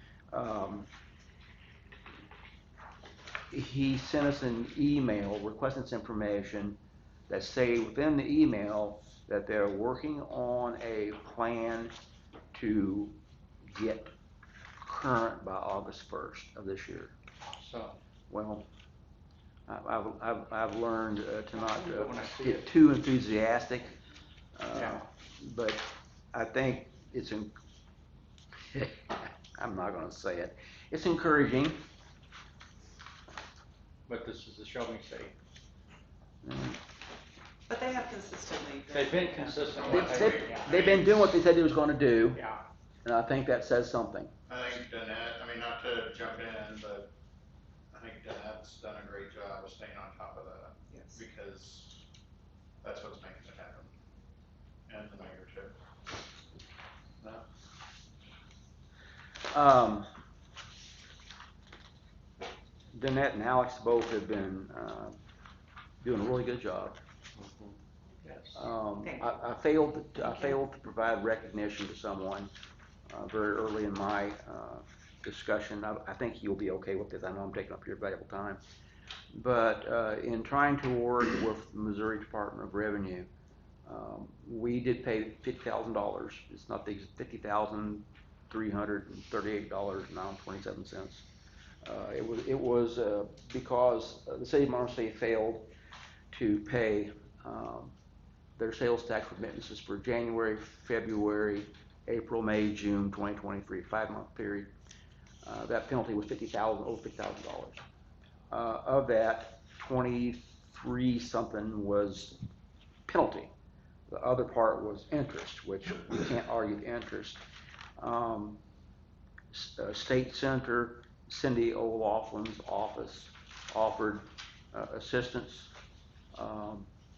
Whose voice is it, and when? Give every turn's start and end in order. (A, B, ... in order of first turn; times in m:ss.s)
0:00.3-0:00.9 A
0:03.5-0:06.8 A
0:07.3-0:11.9 A
0:12.5-0:14.1 A
0:14.8-0:17.2 A
0:17.5-0:18.0 B
0:18.3-0:18.7 A
0:19.7-0:23.9 A
0:21.7-0:22.6 B
0:24.6-0:27.6 A
0:28.7-0:31.8 A
0:34.1-0:35.3 B
0:36.4-0:36.8 A
0:37.7-0:39.7 C
0:38.8-0:40.7 B
0:39.8-0:41.2 D
0:39.9-0:42.5 A
0:43.0-0:44.3 A
0:44.5-0:47.1 D
0:47.9-0:51.9 D
0:52.8-0:53.9 D
0:54.9-0:55.8 D
0:59.5-1:00.1 A
1:02.9-1:05.2 A
1:06.0-1:07.0 A
1:08.5-1:12.5 A
1:13.1-1:18.6 A
1:19.3-1:23.3 A
1:23.9-1:31.3 A
1:31.8-1:35.7 A
1:36.3-1:37.9 A
1:38.6-1:44.7 A
1:45.4-1:47.8 A
1:48.5-1:52.4 A
1:53.1-1:53.5 A
1:54.1-1:57.4 A
1:58.0-1:58.6 A
1:59.5-2:05.7 A
2:06.3-2:06.9 A